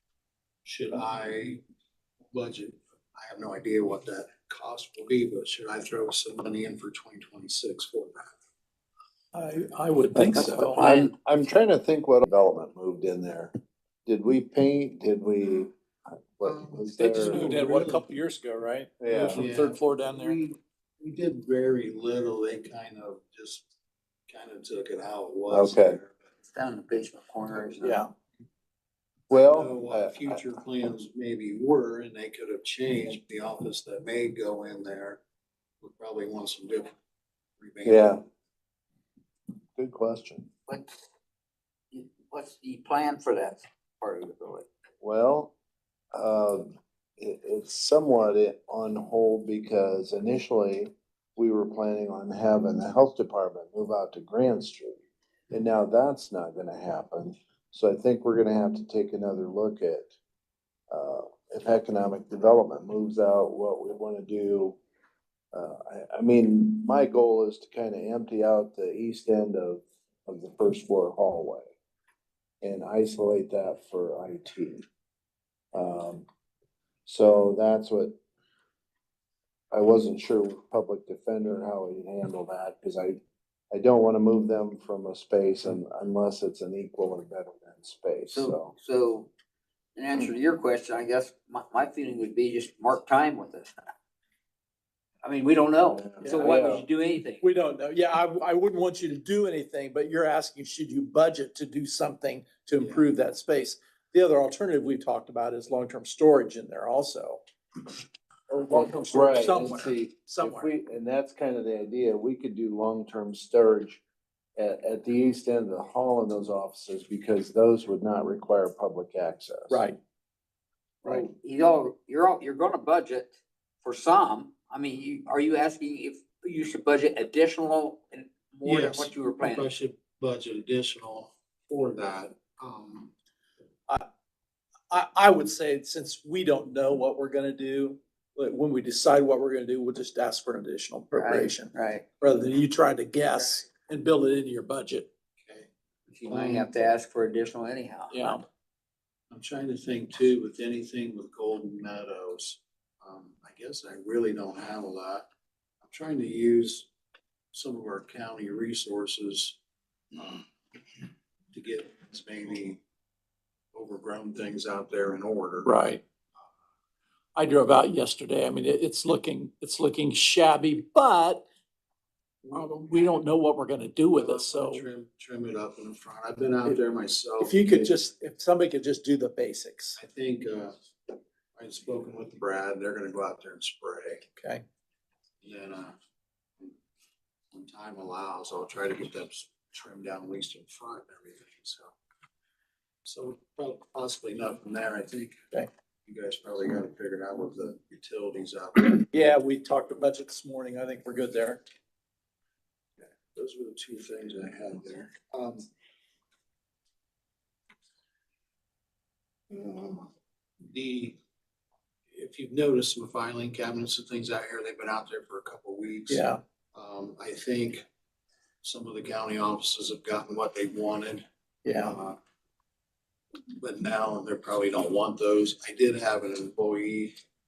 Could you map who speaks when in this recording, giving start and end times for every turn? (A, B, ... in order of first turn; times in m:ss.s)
0:00.6-0:01.6 A
0:02.3-0:08.3 A
0:09.3-0:10.8 B
0:10.2-0:11.1 C
0:10.3-0:13.5 D
0:14.1-0:15.7 D
0:16.3-0:17.6 D
0:16.4-0:18.0 A
0:17.0-0:20.4 B
0:19.0-0:19.4 D
0:19.3-0:23.7 A
0:24.3-0:26.2 A
0:25.5-0:26.0 D
0:26.5-0:28.0 C
0:27.8-0:28.1 B
0:29.3-0:30.3 D
0:29.3-0:35.2 A
0:35.8-0:36.9 A
0:37.6-0:38.1 A
0:37.8-0:38.2 D
0:39.8-0:40.5 D
0:40.7-0:41.0 C
0:41.9-0:44.7 C
0:45.0-0:45.5 D
0:46.1-0:55.0 D
0:55.5-1:00.1 D
1:00.9-1:04.8 D
1:05.5-1:11.7 D
1:12.6-1:14.8 D
1:15.7-1:16.2 D
1:17.0-1:18.2 D
1:19.7-1:23.2 D
1:23.7-1:28.7 D
1:28.3-1:29.3 C
1:30.0-1:33.8 C
1:35.2-1:37.4 C
1:35.8-1:36.8 D
1:36.2-1:36.5 B
1:37.4-1:47.4 B
1:48.5-1:50.7 B
1:48.6-1:54.0 D
1:54.6-1:59.8 D
1:59.7-2:00.0 B
2:01.0-2:09.7 C
2:08.6-2:13.1 A
2:14.9-2:21.7 B
2:21.2-2:22.0 C
2:22.2-2:25.1 B
2:25.4-2:25.7 A
2:26.1-2:28.4 C
2:26.2-2:26.9 A
2:28.1-2:28.4 B
2:29.3-2:35.2 A
2:35.8-2:36.9 A
2:37.5-2:39.6 A
2:40.1-2:40.4 A
2:41.5-2:42.8 A
2:43.7-2:45.7 A
2:45.6-2:46.0 B
2:47.4-2:51.4 B
2:52.5-2:54.8 B
2:54.1-2:58.0 A
2:57.4-3:00.0 B
3:00.0-3:04.2 A
3:04.4-3:04.6 B
3:05.4-3:06.0 A
3:07.5-3:11.9 A
3:13.0-3:15.4 A
3:16.0-3:19.0 A
3:19.1-3:21.6 B
3:23.3-3:25.7 A
3:29.5-3:30.1 A
3:30.6-3:31.2 A
3:32.1-3:37.8 A
3:36.1-3:36.4 B
3:38.6-3:42.2 A
3:41.6-3:41.9 B
3:43.5-3:47.2 A